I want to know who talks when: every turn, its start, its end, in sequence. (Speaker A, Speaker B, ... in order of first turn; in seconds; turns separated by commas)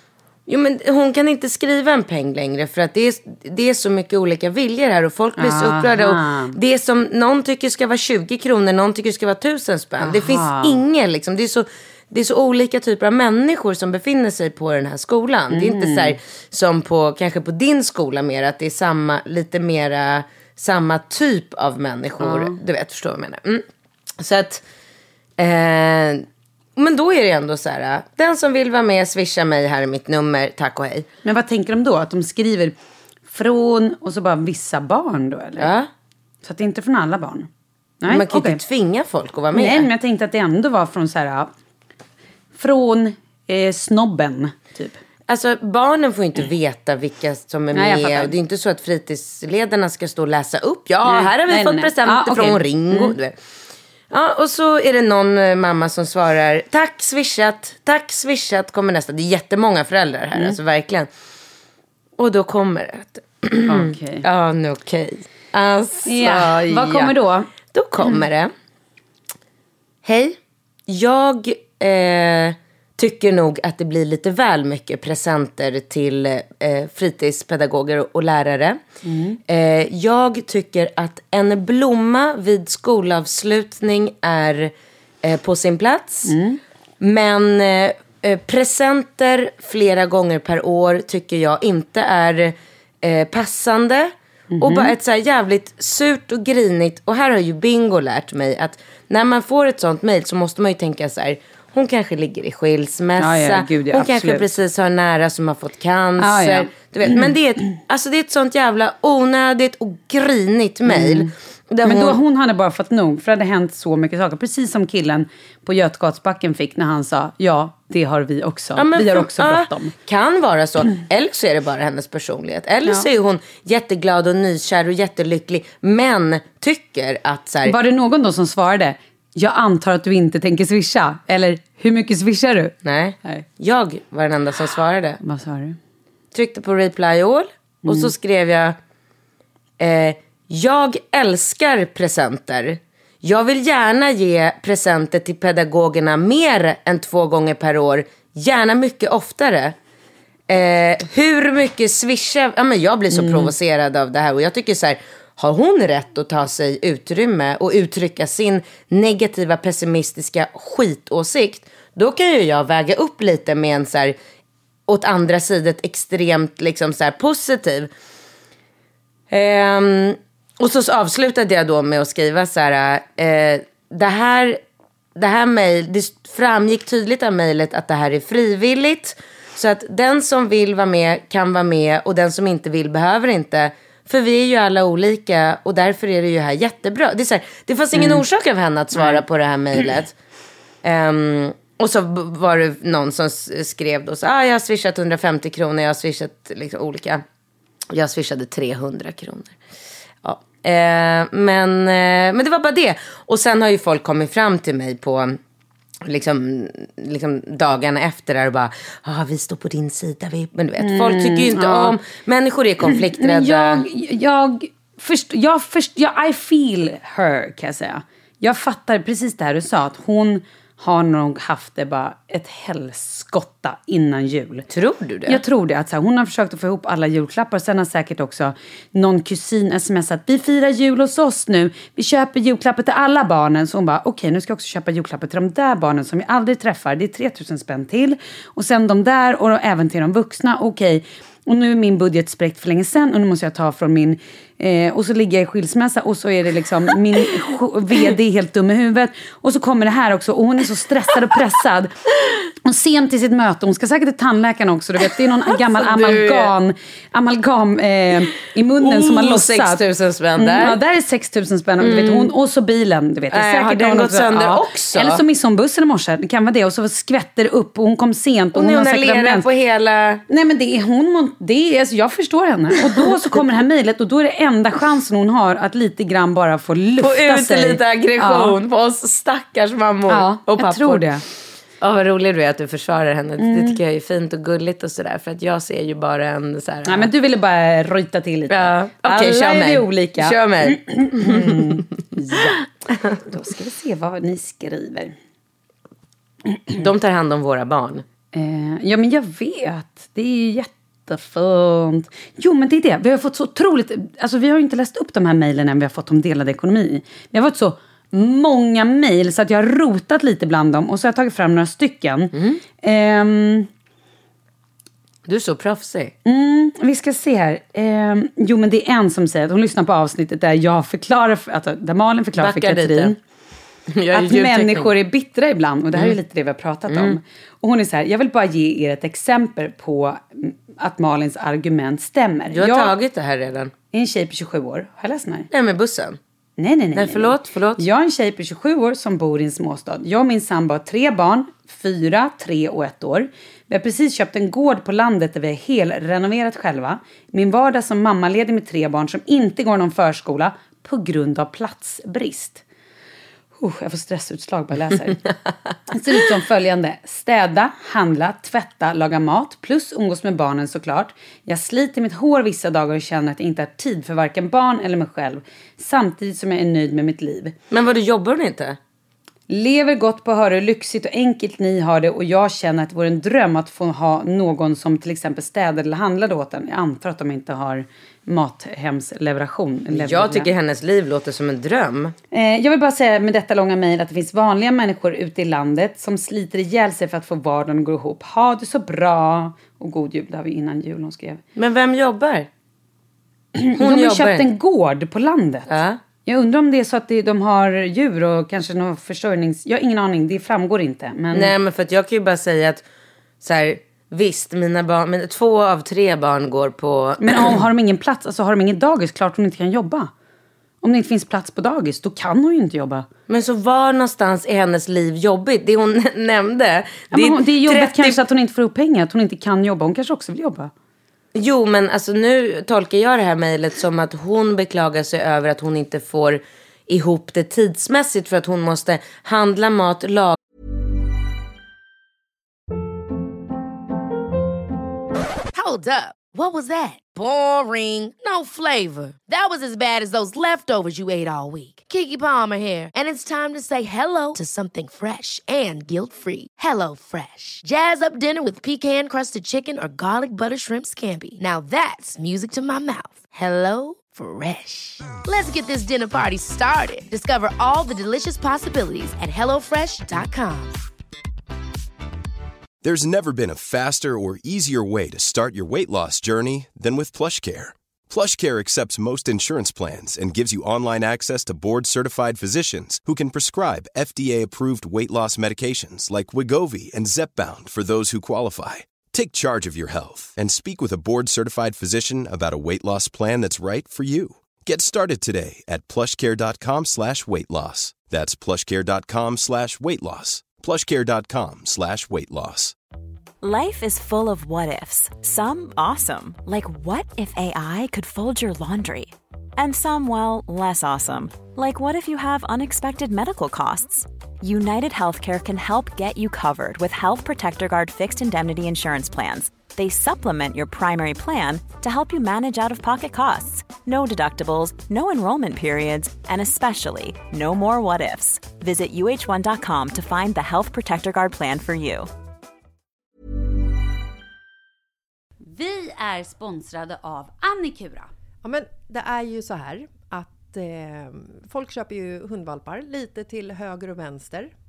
Speaker A: 0.5-23.6, Speaker B: 5.4-6.5, Speaker B: 10.0-10.8, Speaker B: 15.5-16.1, Speaker B: 22.2-22.6, Speaker A: 24.2-24.6, Speaker A: 25.4-31.1, Speaker B: 31.2-32.7, Speaker B: 33.3-35.7, Speaker A: 35.6-35.9, Speaker B: 36.4-37.5, Speaker B: 38.0-38.6, Speaker A: 38.1-39.9, Speaker B: 39.5-41.5, Speaker B: 42.5-45.0, Speaker A: 45.3-53.4, Speaker B: 47.7-48.3, Speaker B: 51.0-53.1, Speaker A: 54.1-61.1, Speaker A: 62.2-68.5, Speaker B: 63.6-64.2, Speaker B: 66.0-67.5, Speaker A: 70.0-78.8, Speaker B: 79.0-79.4, Speaker A: 79.5-86.4, Speaker B: 86.2-86.6, Speaker A: 87.0-112.2, Speaker B: 94.5-94.9, Speaker B: 103.2-104.5, Speaker B: 106.2-107.3, Speaker B: 110.9-111.3, Speaker B: 111.8-119.9, Speaker A: 118.8-127.8, Speaker B: 127.6-133.4, Speaker A: 132.8-135.2, Speaker B: 135.2-135.8, Speaker A: 136.3-138.8, Speaker B: 137.8-138.1, Speaker A: 139.8-149.8, Speaker A: 150.5-164.2, Speaker B: 153.1-153.5, Speaker A: 164.9-167.9, Speaker A: 169.3-174.6, Speaker A: 175.2-190.1, Speaker B: 187.9-188.2, Speaker A: 190.8-197.2, Speaker A: 197.9-199.6, Speaker A: 200.2-205.4, Speaker A: 206.0-213.8, Speaker B: 210.8-211.9, Speaker B: 212.9-224.7, Speaker A: 224.7-225.4, Speaker B: 225.3-252.0, Speaker B: 252.6-259.8, Speaker A: 255.5-256.5, Speaker A: 258.8-260.8, Speaker B: 260.4-269.5, Speaker A: 261.8-262.3, Speaker A: 263.3-265.2, Speaker A: 268.5-270.2, Speaker B: 270.3-278.6, Speaker A: 277.0-281.1, Speaker B: 280.1-281.2, Speaker A: 281.8-287.1, Speaker B: 283.4-283.8, Speaker B: 286.9-292.6, Speaker A: 288.5-291.8, Speaker B: 293.2-295.1, Speaker A: 296.7-298.0, Speaker B: 298.3-313.7, Speaker A: 312.3-312.6, Speaker A: 315.2-316.1, Speaker B: 316.2-323.2, Speaker A: 322.4-323.1, Speaker A: 323.9-324.9, Speaker B: 324.1-332.9, Speaker A: 326.9-327.2, Speaker A: 332.5-333.7, Speaker B: 333.9-335.5, Speaker A: 335.5-336.2, Speaker B: 336.6-352.6, Speaker A: 336.9-337.8, Speaker B: 353.6-355.3, Speaker B: 355.9-367.5, Speaker A: 367.7-368.8, Speaker B: 369.5-380.5, Speaker A: 379.9-382.1, Speaker B: 382.3-391.4, Speaker A: 391.5-392.5, Speaker B: 393.5-395.7, Speaker A: 393.8-394.5, Speaker A: 395.7-396.0, Speaker B: 396.2-401.5, Speaker A: 401.3-402.8, Speaker A: 403.4-407.6, Speaker B: 407.2-410.1, Speaker B: 410.8-413.1, Speaker A: 413.3-418.2, Speaker B: 417.1-420.7, Speaker A: 421.3-430.4, Speaker C: 435.5-460.8, Speaker D: 462.8-492.7, Speaker E: 493.4-522.1, Speaker B: 525.4-528.1, Speaker F: 528.4-534.5